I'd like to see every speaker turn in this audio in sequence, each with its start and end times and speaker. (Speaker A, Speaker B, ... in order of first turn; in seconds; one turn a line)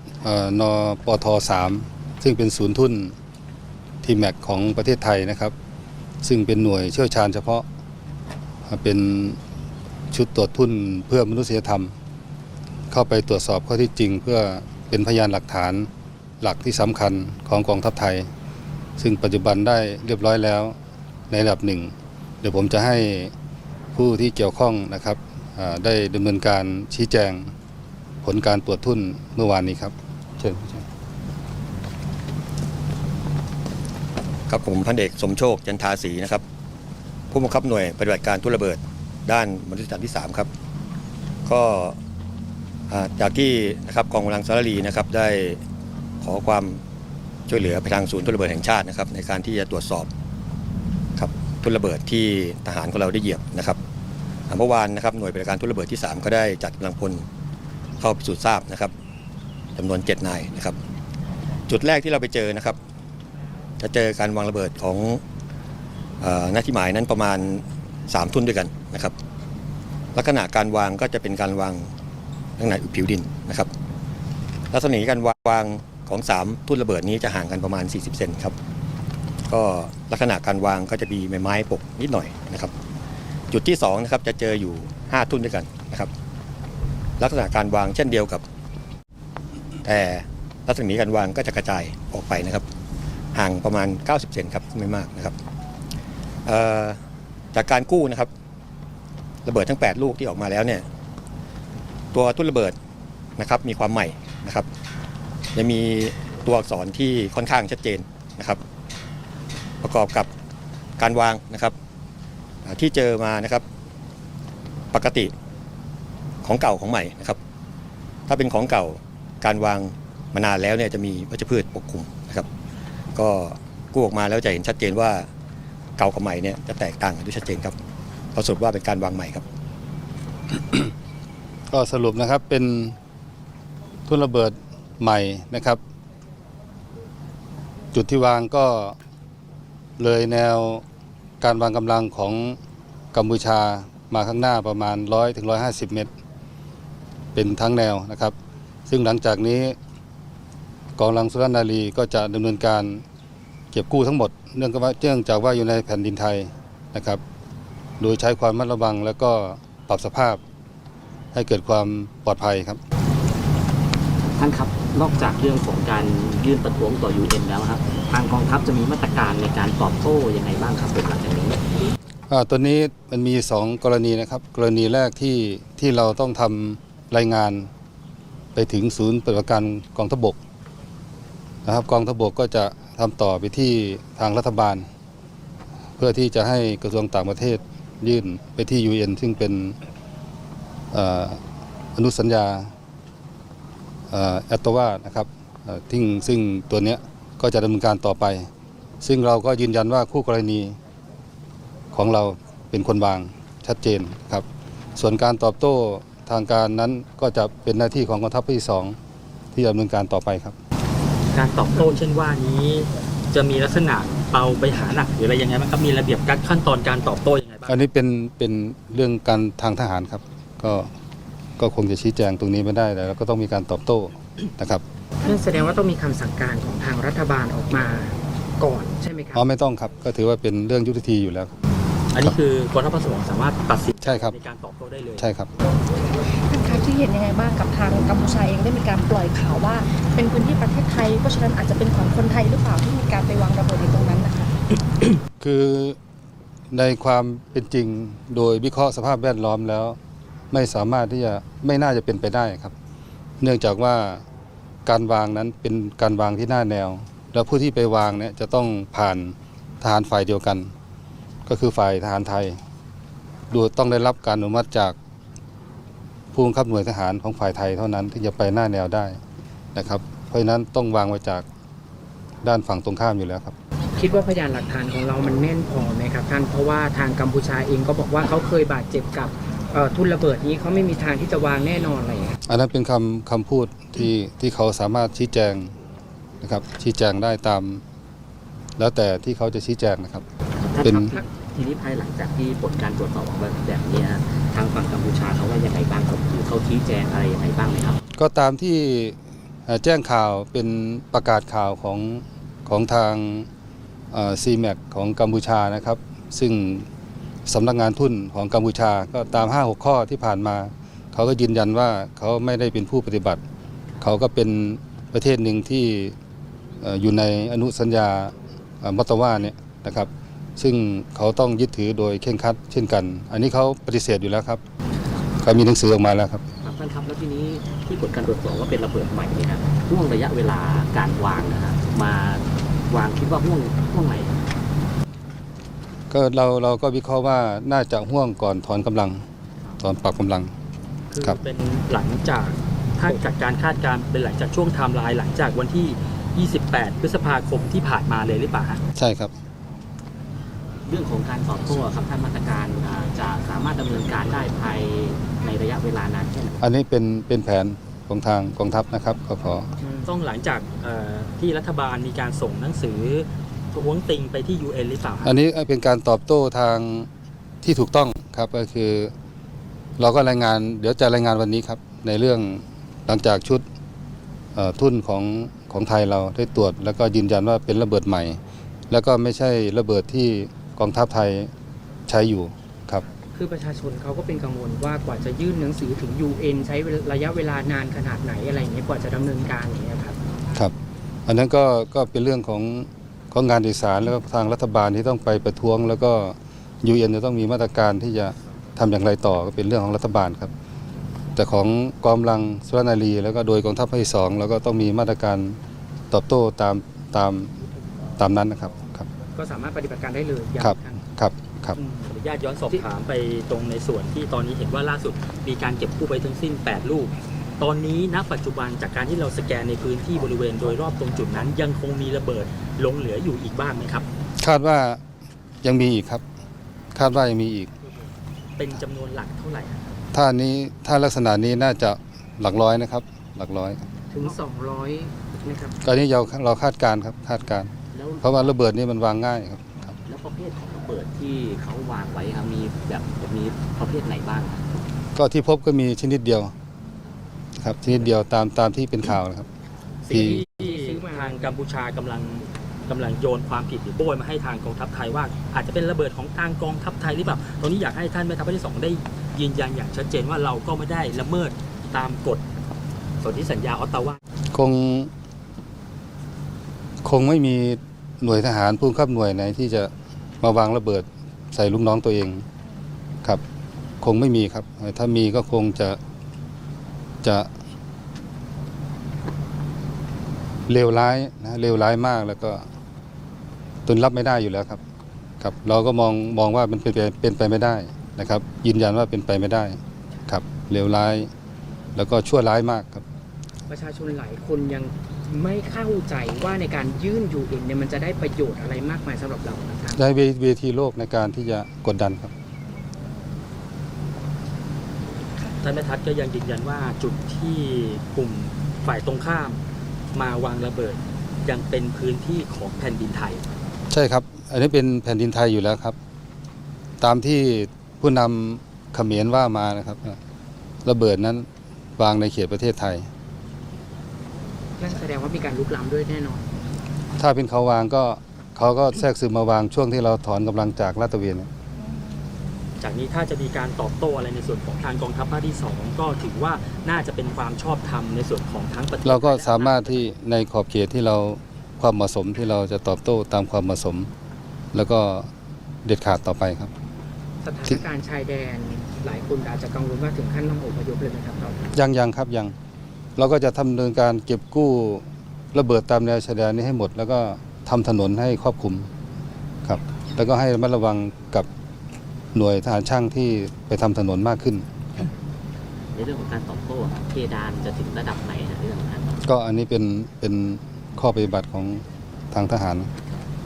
Speaker A: 0.2-3.1
Speaker A: 4.0-5.5
Speaker A: 6.2-7.7
Speaker A: 8.7-9.4
Speaker A: 10.1-11.9
Speaker A: 12.9-15.9
Speaker A: 16.4-18.3
Speaker A: 19.0-20.8
Speaker A: 21.3-23.3
Speaker A: 23.9-27.5
Speaker A: 28.2-30.8
Speaker B: 34.5-36.4
Speaker B: 37.3-40.5
Speaker B: 41.5-42.0
Speaker B: 42.9-45.6
Speaker B: 46.2-46.8
Speaker B: 47.5-50.1
Speaker B: 51.1-53.8
Speaker B: 54.5-57.2
Speaker B: 58.0-58.9
Speaker B: 59.8-60.8
Speaker B: 61.7-62.8
Speaker B: 63.8-65.2
Speaker B: 66.2-69.1
Speaker B: 70.1-71.9
Speaker B: 72.6-73.7
Speaker B: 74.7-78.5
Speaker B: 79.5-82.7
Speaker B: 83.5-86.1
Speaker B: 87.2-88.4
Speaker B: 89.8-92.6
Speaker B: 93.3-95.3
Speaker B: 96.5-97.0
Speaker B: 97.5-98.3
Speaker B: 99.4-100.8
Speaker B: 102.1-102.7
Speaker B: 103.4-104.7
Speaker B: 105.5-108.6
Speaker B: 109.8-110.3
Speaker B: 111.0-111.7
Speaker B: 112.6-113.6
Speaker B: 114.9-115.3
Speaker B: 116.4-117.4
Speaker B: 118.3-122.5
Speaker B: 123.1-125.3
Speaker B: 126.0-127.8
Speaker B: 128.3-129.4
Speaker A: 130.5-130.9
Speaker A: 131.7-132.9
Speaker A: 134.1-135.8
Speaker A: 137.9-139.0
Speaker A: 140.0-140.8
Speaker A: 141.4-142.6
Speaker A: 143.1-146.1
Speaker A: 147.3-148.3
Speaker A: 148.9-149.8
Speaker A: 151.0-153.0
Speaker A: 153.7-157.2
Speaker A: 158.0-160.4
Speaker A: 161.3-162.8
Speaker C: 164.4-171.6
Speaker A: 172.3-177.7
Speaker A: 178.6-180.4
Speaker A: 181.6-184.9
Speaker A: 186.0-189.8
Speaker A: 190.9-191.4
Speaker A: 191.9-192.7
Speaker A: 194.1-198.5
Speaker A: 199.0-200.8
Speaker A: 201.9-209.0
Speaker A: 209.5-210.6
Speaker D: 211.3-217.8
Speaker A: 217.7-220.9
Speaker A: 221.6-224.8
Speaker E: 225.2-229.4
Speaker A: 229.3-231.5
Speaker D: 232.1-235.2
Speaker A: 234.0-234.4
Speaker A: 235.2-235.5
Speaker F: 236.2-244.5
Speaker A: 245.4-246.0
Speaker A: 246.7-250.0
Speaker A: 250.5-252.7
Speaker A: 253.4-254.2
Speaker A: 254.8-260.7
Speaker A: 261.4-262.6
Speaker A: 263.5-264.9
Speaker A: 266.3-269.2
Speaker A: 269.7-271.4
Speaker A: 272.4-273.5
Speaker E: 274.0-282.4
Speaker A: 282.4-285.7
Speaker A: 286.4-287.8
Speaker A: 288.8-290.2
Speaker C: 290.6-298.0
Speaker A: 290.8-291.1
Speaker E: 290.9-291.2
Speaker A: 298.2-303.5
Speaker A: 304.1-306.9
Speaker A: 307.4-313.4
Speaker A: 314.0-316.1
Speaker A: 316.8-324.6
Speaker A: 325.4-326.4
Speaker C: 326.6-334.4
Speaker A: 336.1-339.2
Speaker A: 339.8-340.5
Speaker D: 341.1-348.8
Speaker A: 348.9-349.3
Speaker C: 350.9-356.6
Speaker A: 356.6-359.7
Speaker E: 359.8-360.1
Speaker D: 360.0-365.4
Speaker A: 365.2-367.1
Speaker A: 367.6-369.1
Speaker A: 370.0-373.6
Speaker A: 374.5-378.4
Speaker A: 378.9-381.5
Speaker A: 382.1-383.0
Speaker E: 383.3-390.2
Speaker A: 391.3-400.5
Speaker A: 401.4-405.6
Speaker A: 406.1-407.5
Speaker A: 408.2-409.1
Speaker E: 409.3-411.0
Speaker A: 410.6-411.8
Speaker E: 411.8-412.1
Speaker D: 412.1-424.1
Speaker A: 424.4-425.0
Speaker A: 425.6-426.2
Speaker A: 426.9-427.7
Speaker D: 428.6-429.9
Speaker A: 430.1-433.9
Speaker E: 434.1-435.8
Speaker A: 435.8-439.9
Speaker C: 437.9-438.3
Speaker C: 440.1-444.6
Speaker A: 445.1-446.5
Speaker A: 447.6-449.5
Speaker D: 450.0-462.4
Speaker A: 450.1-450.4
Speaker E: 450.6-451.5
Speaker D: 463.2-464.2
Speaker A: 464.5-465.1
Speaker A: 467.0-472.4
Speaker A: 474.0-476.0
Speaker A: 477.2-477.5
Speaker A: 480.7-482.6
Speaker A: 483.9-484.8
Speaker A: 485.4-491.3
Speaker A: 491.9-493.0
Speaker E: 493.7-500.0
Speaker A: 499.9-502.3
Speaker D: 505.6-509.6
Speaker D: 510.1-513.4
Speaker A: 513.9-516.0
Speaker A: 517.0-520.2
Speaker A: 520.8-521.5
Speaker A: 522.0-523.1
Speaker E: 524.8-526.5
Speaker A: 527.2-531.5
Speaker D: 532.8-540.0
Speaker A: 539.0-544.1
Speaker A: 544.7-545.3
Speaker A: 545.8-546.7
Speaker E: 547.4-551.6
Speaker A: 551.7-552.5
Speaker A: 553.2-558.9
Speaker A: 559.6-561.5
Speaker A: 562.3-565.1
Speaker C: 565.9-569.2
Speaker A: 569.2-572.9